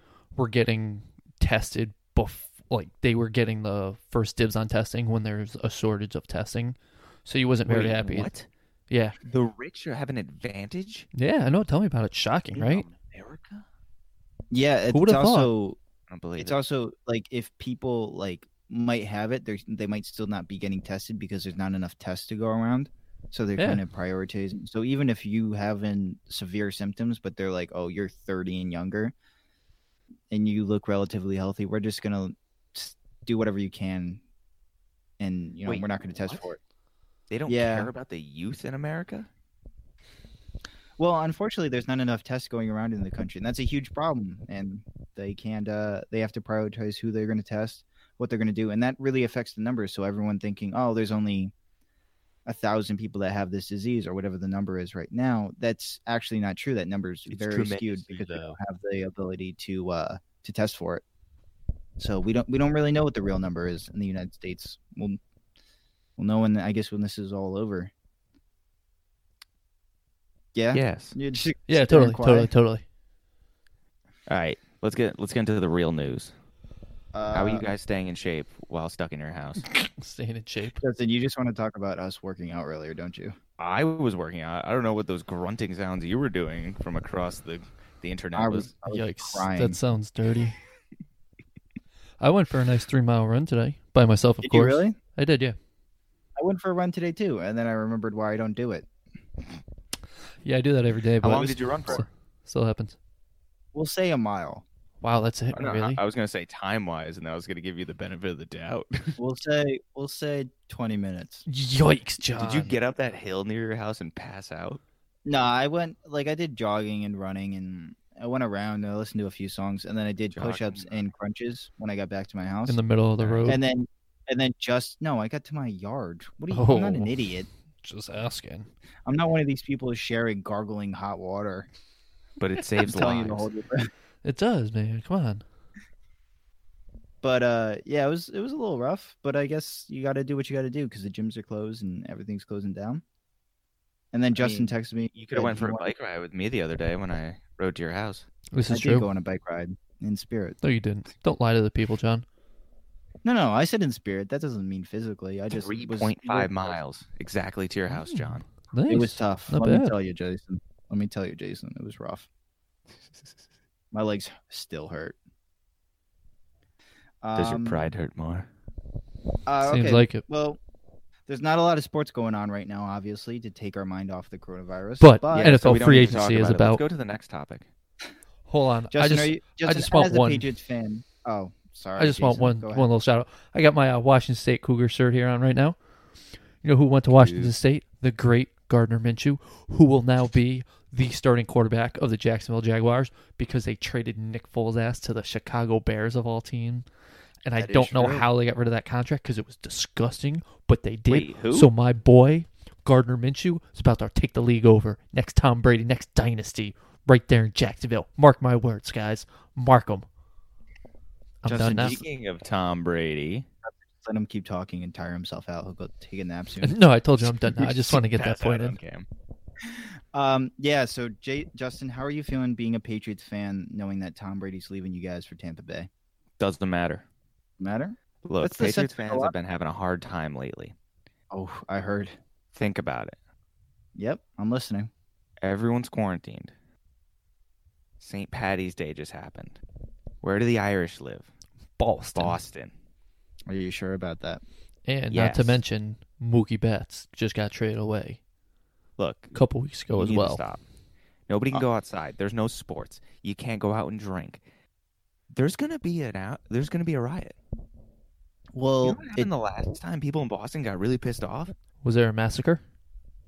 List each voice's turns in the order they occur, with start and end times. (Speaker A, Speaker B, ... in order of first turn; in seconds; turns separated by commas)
Speaker A: 0.3-9.2, Speaker B: 7.7-8.4, Speaker B: 9.2-11.1, Speaker A: 11.1-12.9, Speaker B: 12.5-13.7, Speaker C: 14.5-15.8, Speaker A: 14.9-15.5, Speaker B: 16.1-16.6, Speaker C: 16.4-29.1, Speaker C: 30.3-34.2, Speaker C: 35.2-36.6, Speaker B: 35.7-36.5, Speaker B: 37.3-39.3, Speaker C: 37.5-37.9, Speaker C: 41.0-51.5, Speaker C: 52.5-61.0, Speaker B: 57.3-58.6, Speaker C: 62.0-65.2, Speaker C: 66.2-67.9, Speaker C: 70.5-72.5, Speaker B: 70.7-71.2, Speaker A: 71.7-72.8, Speaker B: 74.3-76.3, Speaker C: 77.1-77.7, Speaker B: 77.3-79.7, Speaker A: 79.6-80.8, Speaker C: 80.8-83.4, Speaker B: 83.6-88.7, Speaker C: 88.3-89.8, Speaker A: 88.9-90.6, Speaker A: 92.2-95.6, Speaker C: 94.4-95.0, Speaker C: 96.4-98.9, Speaker A: 100.4-103.0, Speaker B: 101.2-102.0, Speaker C: 103.7-104.7, Speaker A: 105.0-106.0, Speaker B: 105.5-109.2, Speaker C: 109.2-111.5, Speaker A: 111.5-112.8, Speaker B: 112.4-114.8, Speaker C: 115.3-122.8, Speaker B: 120.3-121.0, Speaker A: 122.7-123.6, Speaker B: 123.2-123.6, Speaker C: 123.5-127.5, Speaker A: 126.5-127.2, Speaker A: 127.8-128.7, Speaker C: 129.1-131.7, Speaker B: 132.4-133.5, Speaker C: 132.8-133.9, Speaker A: 134.2-135.4, Speaker C: 137.2-143.0, Speaker C: 144.1-145.9, Speaker B: 144.4-148.3, Speaker A: 148.5-149.1, Speaker C: 148.7-150.6, Speaker A: 150.6-152.2, Speaker C: 153.2-156.8, Speaker B: 155.5-158.5, Speaker A: 157.9-159.9, Speaker C: 158.9-162.3, Speaker B: 163.1-163.4, Speaker C: 163.9-165.2, Speaker C: 167.2-167.8, Speaker B: 167.3-168.5, Speaker C: 169.5-170.6, Speaker A: 169.6-170.2, Speaker C: 171.3-176.1, Speaker A: 175.0-176.8, Speaker B: 175.3-177.7, Speaker A: 178.5-180.5, Speaker C: 178.9-182.9, Speaker A: 182.0-185.8, Speaker A: 186.6-196.9, Speaker B: 187.1-187.5, Speaker A: 197.4-210.1, Speaker C: 197.6-198.3, Speaker B: 201.1-201.7, Speaker A: 211.4-212.0, Speaker C: 211.5-212.0, Speaker B: 211.6-213.5, Speaker C: 213.6-216.8, Speaker A: 216.6-218.8, Speaker B: 217.5-219.1, Speaker C: 219.8-225.9, Speaker B: 226.4-227.1, Speaker C: 227.6-229.3, Speaker B: 228.2-230.8, Speaker C: 231.3-232.2, Speaker B: 232.5-233.2, Speaker C: 234.0-234.9, Speaker B: 235.4-236.5, Speaker B: 238.0-239.6, Speaker B: 240.2-241.3, Speaker A: 241.8-242.4, Speaker B: 242.1-242.7, Speaker C: 243.5-244.4, Speaker A: 244.9-248.2, Speaker B: 245.1-245.6, Speaker B: 249.0-249.4, Speaker A: 249.3-250.4, Speaker B: 249.9-250.6, Speaker B: 251.3-254.4, Speaker B: 255.3-257.4, Speaker C: 258.6-259.3, Speaker B: 258.8-261.5, Speaker A: 261.8-262.6